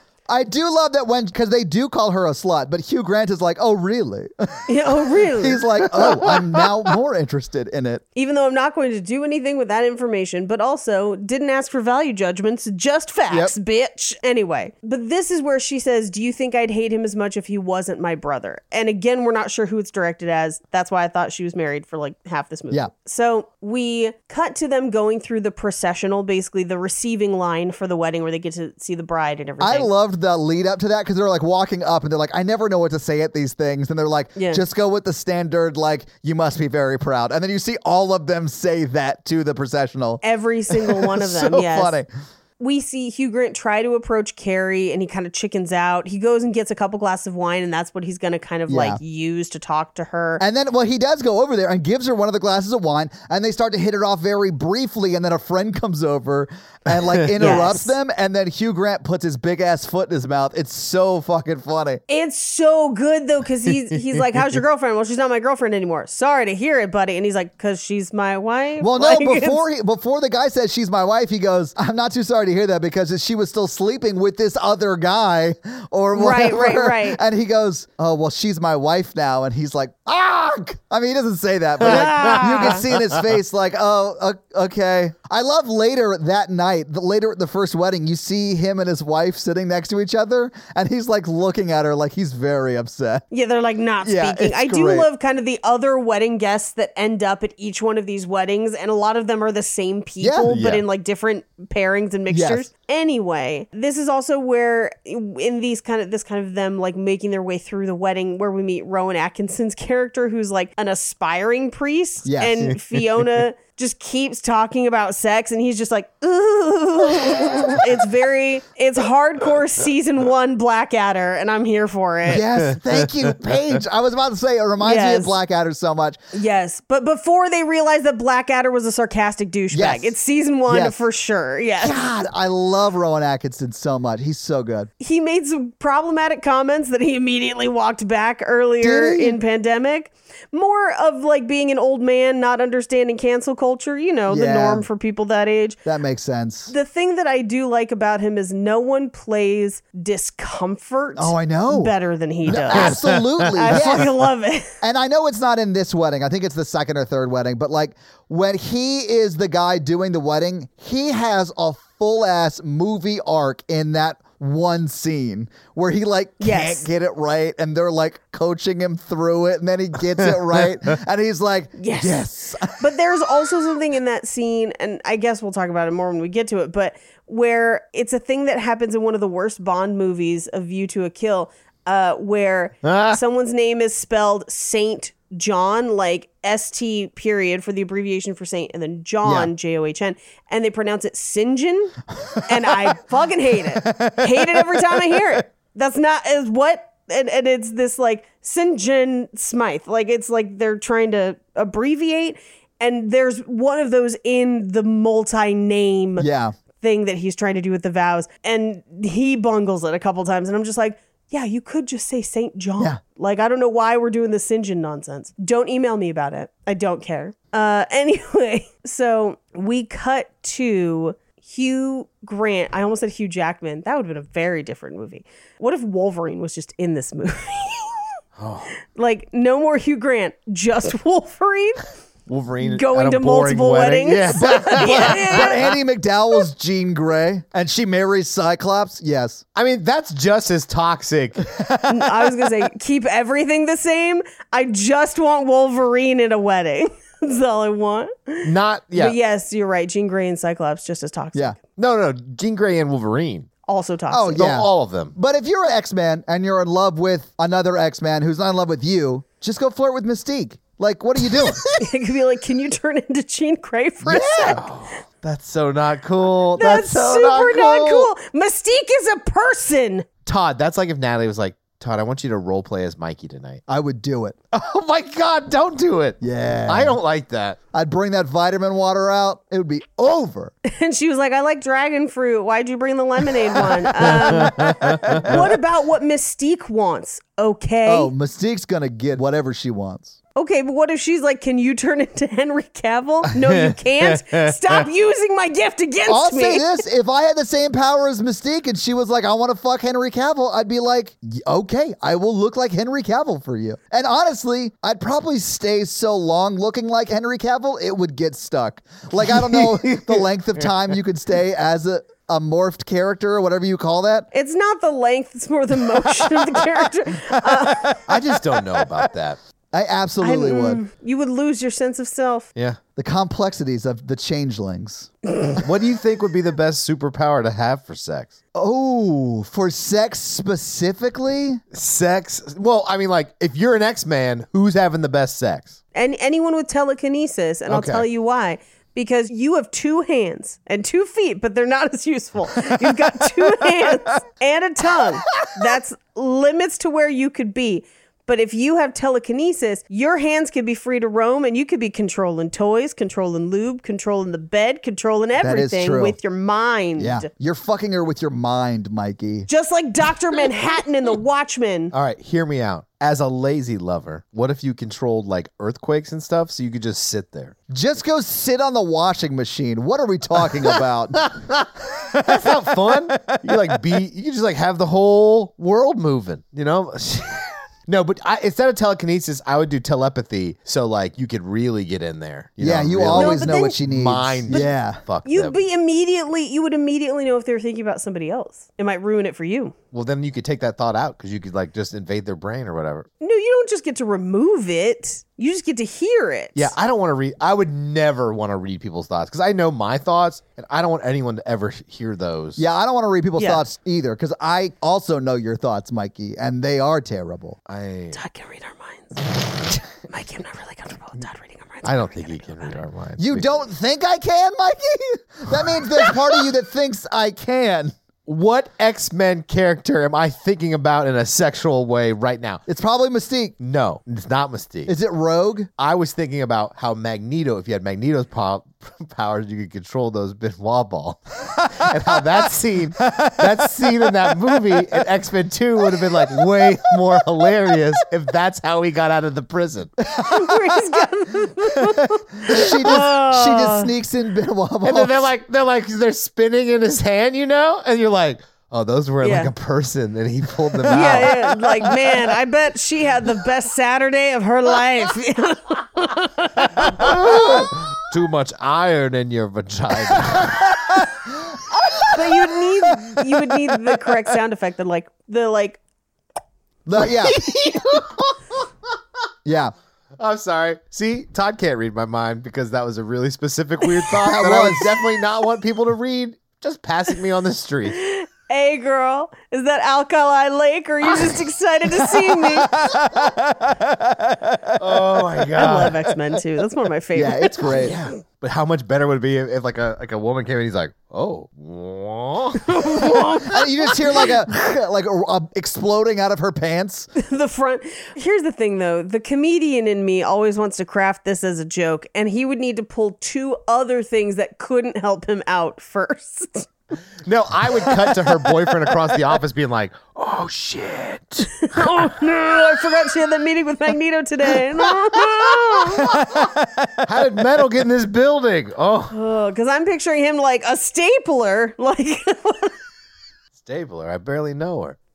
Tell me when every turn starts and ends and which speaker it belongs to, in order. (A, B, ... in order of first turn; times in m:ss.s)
0:00.3-0:04.6 A
0:04.7-0:05.6 B
0:05.4-0:08.0 A
0:06.0-0:06.7 C
0:08.2-0:29.9 B
0:29.6-0:40.2 A
0:34.4-0:34.6 B
0:40.2-0:42.0 B
0:41.2-0:42.1 A
0:42.6-0:50.4 B
0:48.7-0:49.0 A
0:50.4-1:02.0 A
0:57.0-0:57.6 C
0:57.4-0:58.0 B
1:02.1-1:09.6 B
1:08.8-1:33.2 A
1:16.2-1:17.2 B
1:21.9-1:22.8 B
1:22.8-1:23.2 C
1:33.3-2:02.4 B
1:34.0-1:35.1 A
1:40.2-1:40.8 A
1:42.3-1:42.7 A
1:52.2-1:52.8 A
2:02.3-2:06.2 A
2:02.6-2:03.3 C
2:04.8-2:05.4 B
2:06.3-2:12.0 B
2:09.7-2:10.2 A
2:10.7-2:11.0 A
2:11.8-2:14.9 A
2:15.0-2:25.8 B
2:18.8-2:19.4 A
2:24.3-2:24.9 A
2:25.8-2:26.7 A
2:26.7-2:33.0 B
2:31.2-2:31.9 A
2:32.5-2:34.1 A
2:32.5-2:34.0 C
2:33.5-2:34.8 B
2:34.8-2:52.9 A
2:46.4-2:46.9 B
2:51.8-3:26.3 B
3:02.8-3:03.2 C
3:09.2-3:09.5 A
3:12.3-3:12.7 A
3:13.6-3:15.0 A
3:26.2-3:26.5 A
3:26.8-3:48.0 B
3:48.4-3:48.7 C
3:48.9-3:51.8 B
3:52.3-3:55.6 C
3:52.6-3:55.5 B
3:54.4-3:59.4 A
3:59.6-4:01.4 C
4:01.4-4:02.5 A
4:01.9-4:11.6 B
4:08.4-4:09.2 C
4:11.8-4:13.5 C
4:13.7-4:14.4 B
4:14.1-4:21.6 A
4:14.4-4:15.1 C
4:21.8-4:24.6 B
4:24.0-4:24.6 A
4:24.6-4:28.1 C
4:26.6-4:30.1 B
4:30.3-4:33.6 C
4:33.7-4:34.4 A
4:34.5-4:37.6 C
4:36.2-4:37.0 A
4:37.7-4:40.5 A
4:40.6-4:48.1 B
4:44.0-4:45.2 C
4:44.2-4:45.4 A
4:47.9-4:50.2 A
4:50.4-4:56.7 B
4:53.4-4:54.8 C
4:56.1-5:14.3 A
5:09.3-5:10.6 C
5:14.3-5:18.1 B
5:18.1-5:19.4 C
5:19.7-5:20.8 A
5:20.2-5:22.5 B
5:23.0-5:25.1 A
5:25.6-5:28.3 C
5:28.6-5:31.6 A
5:31.7-5:35.8 C
5:35.9-5:57.3 B
5:37.7-5:38.1 C
5:55.4-5:56.2 A
5:57.0-5:59.5 A
5:59.5-6:01.9 B
6:01.9-6:07.6 C
6:07.7-6:11.3 A
6:10.6-6:25.6 C
6:12.3-6:13.8 A
6:22.6-6:25.0 A
6:23.2-6:23.8 B
6:25.2-6:29.8 B
6:29.9-6:33.1 C
6:33.2-6:36.7 B
6:36.6-6:42.6 C
6:42.6-6:47.6 A
6:43.4-6:43.6 B
6:47.7-6:48.2 C
6:48.1-6:52.8 B
6:51.8-6:53.6 C
6:53.2-6:58.0 A
6:58.3-7:02.6 C
7:02.7-7:03.6 A
7:03.6-7:04.9 C
7:04.9-7:05.7 A
7:05.8-7:20.0 C
7:13.1-7:13.9 A
7:20.2-7:20.6 A
7:20.2-7:23.9 B
7:22.5-7:25.3 A
7:24.8-7:32.3 C
7:29.2-7:29.5 B
7:30.9-7:37.4 B
7:36.6-7:41.0 C
7:42.0-7:45.8 B
7:46.9-7:47.4 A
7:47.2-7:48.6 C
7:49.4-7:49.7 A
7:50.2-7:58.0 C
7:54.2-7:54.9 A
7:58.0-8:02.9 B
8:02.5-8:05.2 A
8:04.8-8:06.4 C
8:05.6-8:08.0 B
8:07.2-8:07.9 A
8:07.6-8:13.2 C
8:12.7-8:13.9 B
8:13.4-8:17.1 A
8:17.2-8:26.7 B
8:27.2-8:32.1 C
8:31.6-8:36.1 B
8:35.1-8:36.4 C
8:36.1-8:37.1 A
8:37.0-8:39.2 C
8:39.1-8:42.8 B
8:43.5-8:45.0 C